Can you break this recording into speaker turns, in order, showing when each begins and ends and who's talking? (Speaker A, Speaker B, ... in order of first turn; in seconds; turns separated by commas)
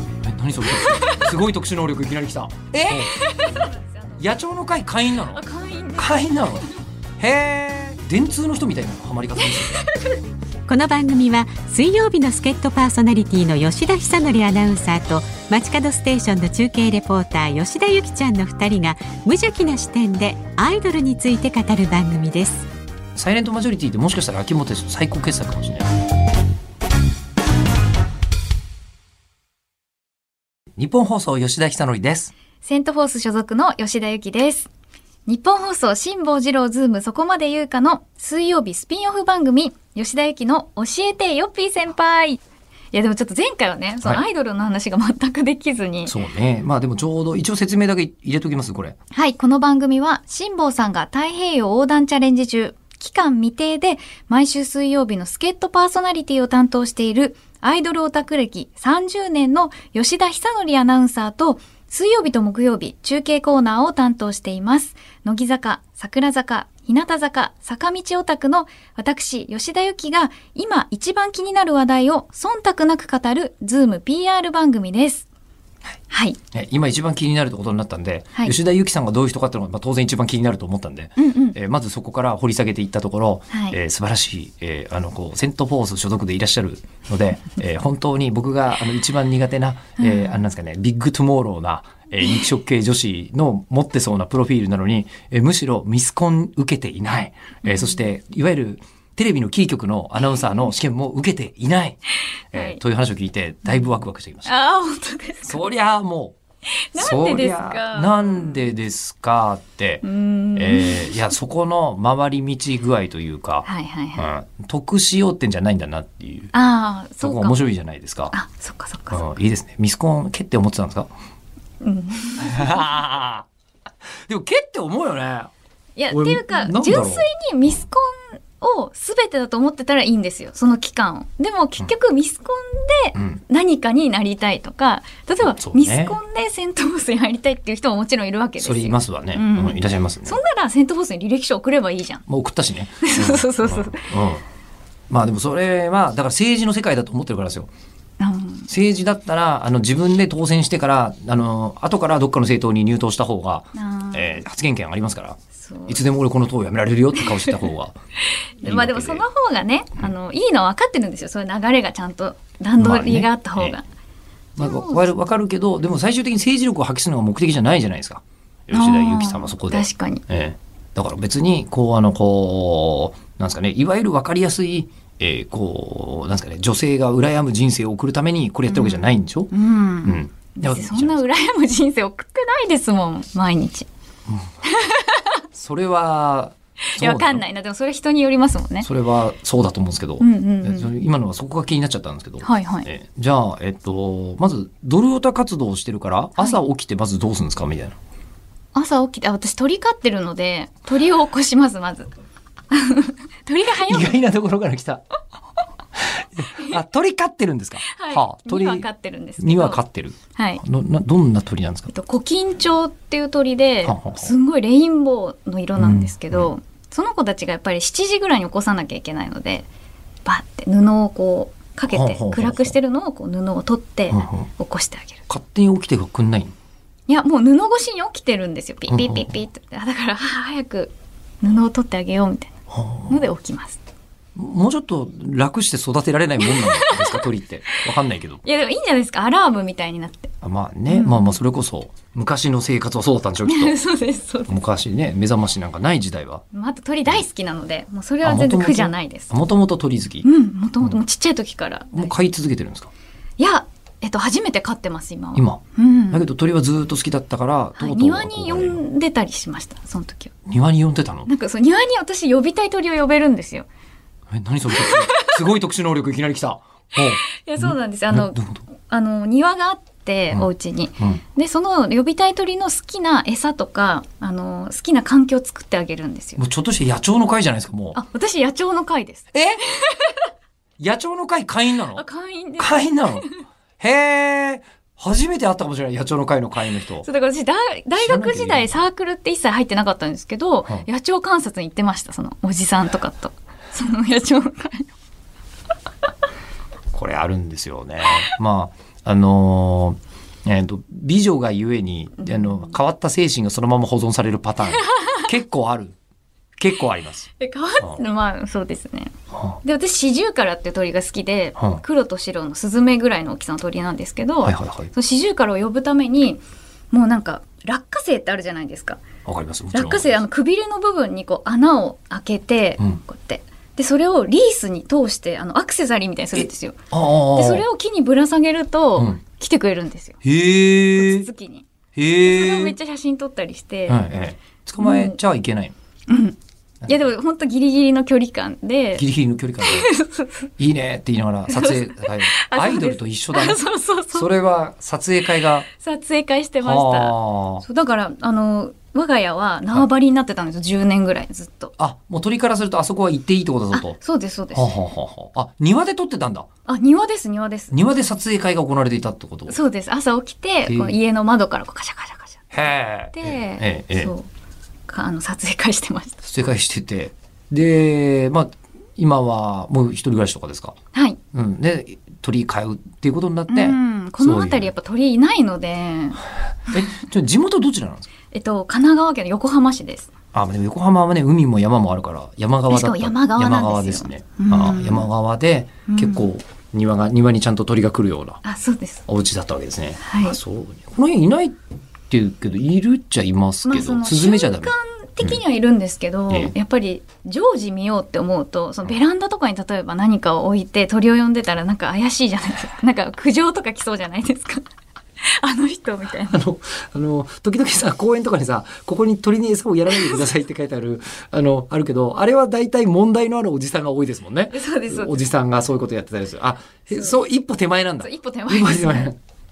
Speaker A: 0.2-6.7, Speaker B: 0.7-1.3, Speaker B: 2.9-4.1, Speaker B: 5.3-6.8, Speaker A: 7.2-9.9, Speaker B: 9.4-10.2, Speaker C: 10.7-22.7, Speaker A: 23.2-25.9, Speaker A: 30.8-32.3, Speaker B: 32.6-34.7, Speaker B: 35.3-42.4, Speaker B: 42.9-46.1, Speaker A: 46.1-49.0, Speaker B: 49.1-75.3, Speaker B: 76.1-76.4, Speaker A: 76.5-102.0, Speaker B: 81.2-81.6, Speaker B: 83.5-83.8, Speaker B: 90.0-90.4, Speaker B: 97.7-98.0, Speaker A: 102.5-104.5, Speaker B: 102.5-102.8, Speaker B: 104.5-105.7, Speaker A: 105.4-106.4, Speaker B: 106.7-108.6, Speaker A: 107.0-116.5, Speaker B: 110.0-111.1, Speaker B: 113.7-114.3, Speaker B: 116.5-117.6, Speaker A: 117.2-118.3, Speaker B: 118.3-119.2, Speaker A: 119.1-121.1, Speaker B: 121.8-122.9, Speaker A: 122.4-123.5, Speaker A: 124.3-125.5, Speaker B: 126.0-142.2, Speaker A: 126.1-127.3, Speaker A: 133.2-133.4, Speaker A: 135.4-136.2, Speaker A: 138.6-140.4, Speaker A: 142.3-144.4, Speaker B: 143.0-144.1, Speaker A: 145.1-147.7, Speaker B: 148.2-148.7, Speaker A: 148.7-158.0, Speaker B: 153.8-154.4, Speaker B: 155.6-156.0, Speaker B: 157.2-157.5, Speaker B: 158.6-163.8, Speaker A: 158.6-159.2, Speaker A: 162.8-163.8, Speaker A: 164.6-179.5, Speaker B: 164.6-165.1, Speaker B: 168.7-170.2, Speaker B: 178.7-183.9, Speaker A: 180.1-181.2, Speaker B: 184.6-185.4, Speaker A: 185.6-187.4, Speaker B: 186.8-188.9, Speaker A: 188.8-198.0, Speaker B: 190.2-190.9, Speaker B: 192.4-192.9, Speaker B: 198.7-202.1, Speaker B: 202.7-204.1, Speaker A: 203.8-205.0, Speaker A: 206.0-208.9, Speaker B: 207.8-209.8, Speaker A: 209.4-211.9, Speaker B: 210.3-210.6, Speaker B: 211.9-219.7, Speaker A: 213.8-214.3, Speaker A: 215.8-216.5, Speaker B: 220.2-225.2, Speaker A: 221.9-222.8, Speaker A: 224.1-224.5, Speaker A: 225.3-226.5, Speaker B: 227.1-232.5, Speaker A: 228.9-229.3, Speaker A: 232.7-233.2, Speaker B: 233.1-233.8, Speaker A: 234.3-238.4, Speaker B: 236.4-237.2, Speaker B: 238.4-240.3, Speaker A: 240.4-243.8, Speaker B: 240.9-241.4, Speaker B: 243.4-244.6, Speaker A: 244.5-246.4, Speaker B: 246.5-249.3, Speaker A: 248.2-250.3, Speaker B: 250.2-252.1, Speaker A: 251.9-252.9, Speaker B: 253.4-256.3, Speaker A: 255.4-258.8, Speaker B: 257.8-260.3, Speaker A: 260.5-261.3, Speaker B: 261.3-263.7, Speaker A: 264.3-268.6, Speaker B: 264.7-265.4, Speaker B: 267.3-276.4, Speaker A: 270.3-271.2, Speaker A: 276.4-278.0, Speaker B: 277.9-280.3, Speaker A: 279.3-279.6, Speaker A: 280.8-282.1, Speaker B: 281.9-283.4, Speaker A: 282.6-283.3, Speaker A: 283.8-287.1, Speaker B: 287.0-294.9, Speaker A: 288.0-288.8, Speaker A: 296.9-305.9, Speaker B: 302.2-302.5, Speaker B: 304.8-305.2, Speaker A: 306.6-307.3, Speaker B: 307.4-309.1, Speaker B: 309.6-319.0, Speaker A: 311.6-311.8, Speaker A: 314.4-314.9, Speaker A: 319.2-320.2, Speaker B: 319.7-330.2, Speaker A: 326.4-327.6, Speaker A: 330.2-331.3, Speaker B: 330.9-331.7, Speaker A: 331.9-332.8, Speaker B: 332.2-334.0, Speaker A: 333.9-335.7, Speaker B: 334.8-335.2, Speaker B: 336.1-339.1, Speaker A: 339.0-339.9, Speaker B: 339.6-340.5, Speaker A: 340.6-343.6, Speaker B: 341.5-344.3, Speaker A: 344.1-345.7, Speaker B: 345.7-351.7, Speaker A: 346.6-347.6, Speaker A: 351.8-354.0, Speaker B: 353.7-354.8, Speaker A: 354.5-356.5, Speaker B: 356.7-357.7, Speaker A: 357.7-359.6, Speaker B: 359.5-364.3, Speaker A: 360.7-361.0, Speaker A: 362.5-364.1, Speaker B: 364.9-366.2, Speaker A: 366.2-370.8, Speaker B: 370.9-371.2, Speaker A: 371.3-374.7, Speaker B: 373.5-376.2, Speaker A: 376.7-378.1, Speaker B: 378.3-380.1, Speaker A: 380.3-388.4, Speaker B: 382.7-385.1, Speaker B: 385.9-386.3, Speaker B: 388.4-389.1, Speaker A: 389.1-391.6, Speaker B: 390.0-390.4, Speaker A: 392.1-395.4, Speaker B: 393.6-404.6, Speaker B: 405.2-406.3, Speaker A: 406.3-419.2, Speaker B: 414.5-415.2, Speaker B: 418.0-419.1